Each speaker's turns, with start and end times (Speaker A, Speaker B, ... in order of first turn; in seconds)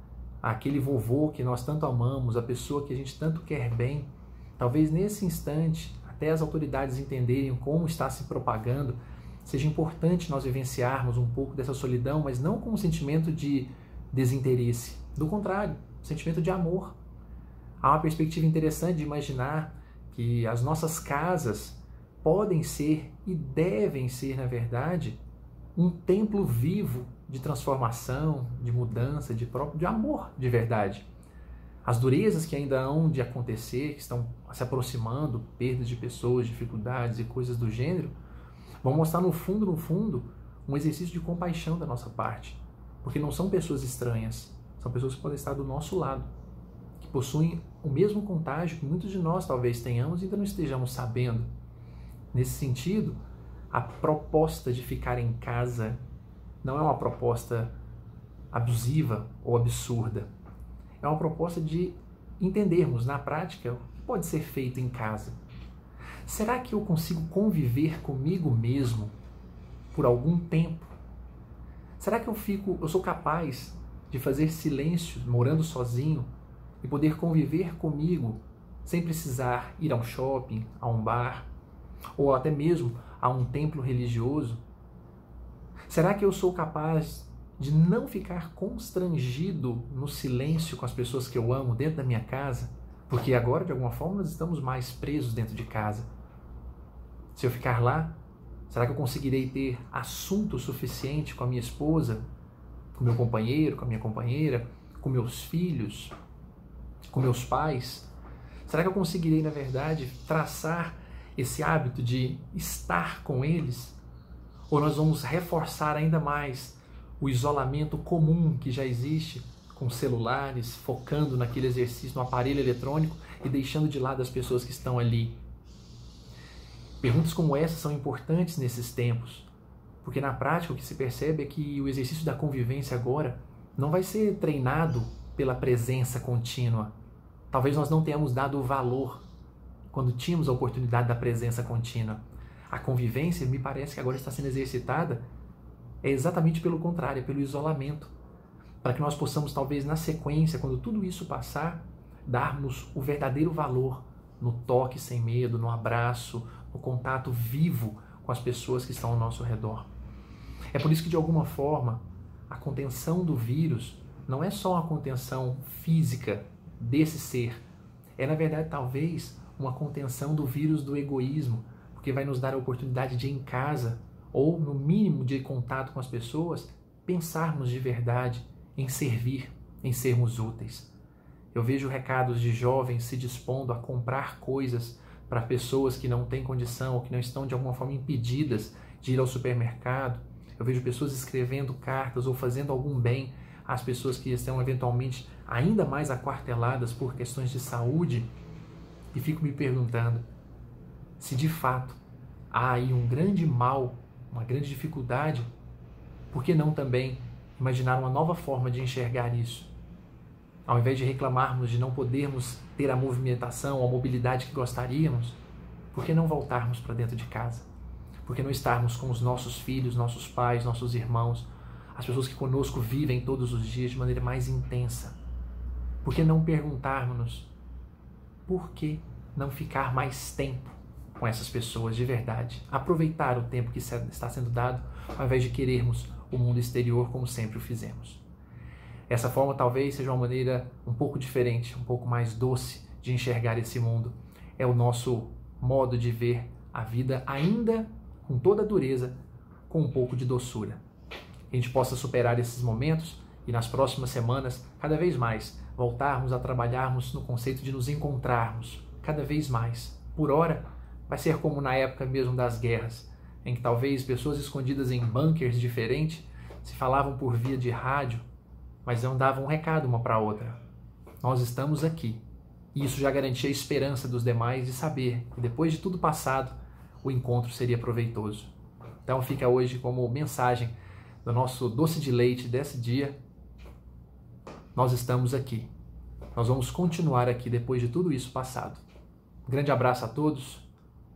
Speaker A: 0.4-16.9, 17.8-25.2, 25.7-31.1, 31.8-38.1, 38.8-46.3, 47.0-51.5, 52.3-53.2, 53.7-56.0, 56.6-57.7, 58.5-60.3, 61.0-65.4, 66.2-69.1, 69.9-70.9, 72.0-76.3, 76.8-81.5, 82.2-84.6, 85.9-96.1, 97.3-98.2, 98.7-102.2, 102.9-106.1, 107.1-108.1, 108.7-114.0, 114.7-125.4, 127.0-129.5, 130.0-136.9, 137.5-139.2, 139.9-145.2, 146.0-148.1, 148.8-159.9, 160.7-167.6, 168.2-180.9, 181.5-198.3, 199.1-200.2, 201.2-202.0, 202.5-205.4, 206.3-209.7, 210.7-215.4, 215.9-217.7, 218.2-225.2, 226.0-227.5, 228.5-238.2, 239.1-249.2, 249.7-250.8, 251.5-268.2, 268.8-270.6, 271.2-272.2, 272.7-278.5, 279.0-280.7, 281.2-283.1, 284.7-285.7, 286.3-288.8, 289.5-290.7